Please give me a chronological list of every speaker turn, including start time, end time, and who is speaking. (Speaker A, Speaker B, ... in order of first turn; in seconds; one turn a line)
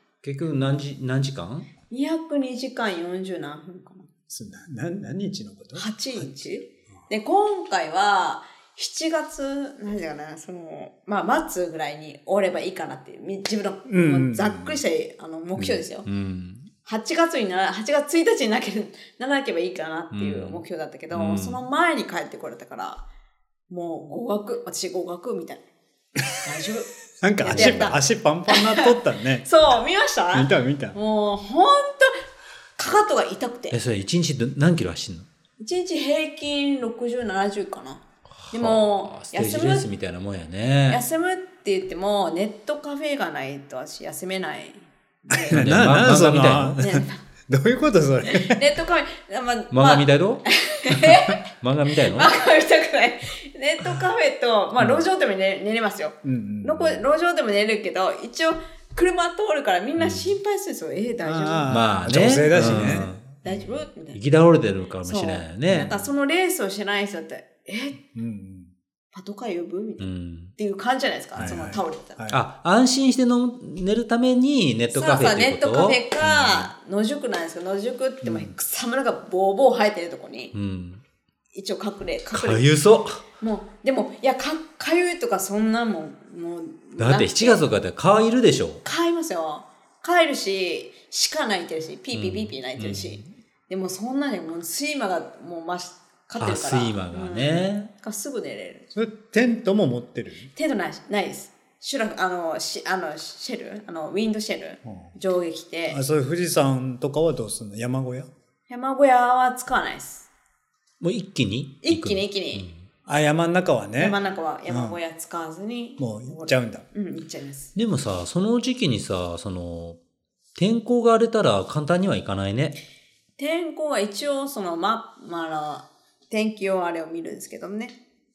Speaker A: 0.2-1.7
Speaker B: 1.9-4.1
Speaker C: 4.3-6.5
Speaker B: 5.7-16.1
Speaker C: 13.9-14.8
Speaker A: 16.0-16.7
Speaker B: 16.8-23.0
Speaker A: 20.1-21.6
Speaker B: 23.7-25.6
Speaker B: 26.4-26.9
Speaker C: 27.2-29.5
Speaker B: 27.4-32.2
Speaker A: 27.4-27.9
Speaker C: 30.3-31.0
Speaker B: 32.8-33.8
Speaker A: 33.7-35.3
Speaker B: 35.6-39.9
Speaker A: 38.4-41.0
Speaker B: 40.9-45.6
Speaker C: 45.3-48.6
Speaker A: 45.5-46.8
Speaker B: 46.8-47.2
Speaker B: 48.2-61.7
Speaker A: 49.7-52.3
Speaker C: 56.2-57.0
Speaker A: 60.0-60.4
Speaker C: 61.2-63.2
Speaker A: 61.7-66.0
Speaker B: 62.5-64.2
Speaker B: 65.0-68.0
Speaker C: 65.7-65.9
Speaker C: 68.1-68.7
Speaker B: 69.1-72.2
Speaker A: 70.0-70.5
Speaker C: 71.3-72.4
Speaker A: 72.3-76.7
Speaker B: 74.9-80.5
Speaker C: 78.2-78.5
Speaker A: 80.5-81.0
Speaker B: 81.5-82.6
Speaker A: 82.3-83.2
Speaker B: 83.4-87.6
Speaker A: 87.0-88.8
Speaker B: 88.8-98.9
Speaker A: 92.1-93.3
Speaker A: 96.4-97.9
Speaker C: 98.9-100.5
Speaker B: 100.5-106.0
Speaker C: 105.9-108.3
Speaker B: 108.7-110.3
Speaker A: 111.0-112.8
Speaker B: 111.8-112.7
Speaker C: 113.0-115.0
Speaker B: 114.0-117.7
Speaker C: 116.0-116.8
Speaker A: 117.7-120.0
Speaker A: 120.5-122.8
Speaker B: 123.4-128.0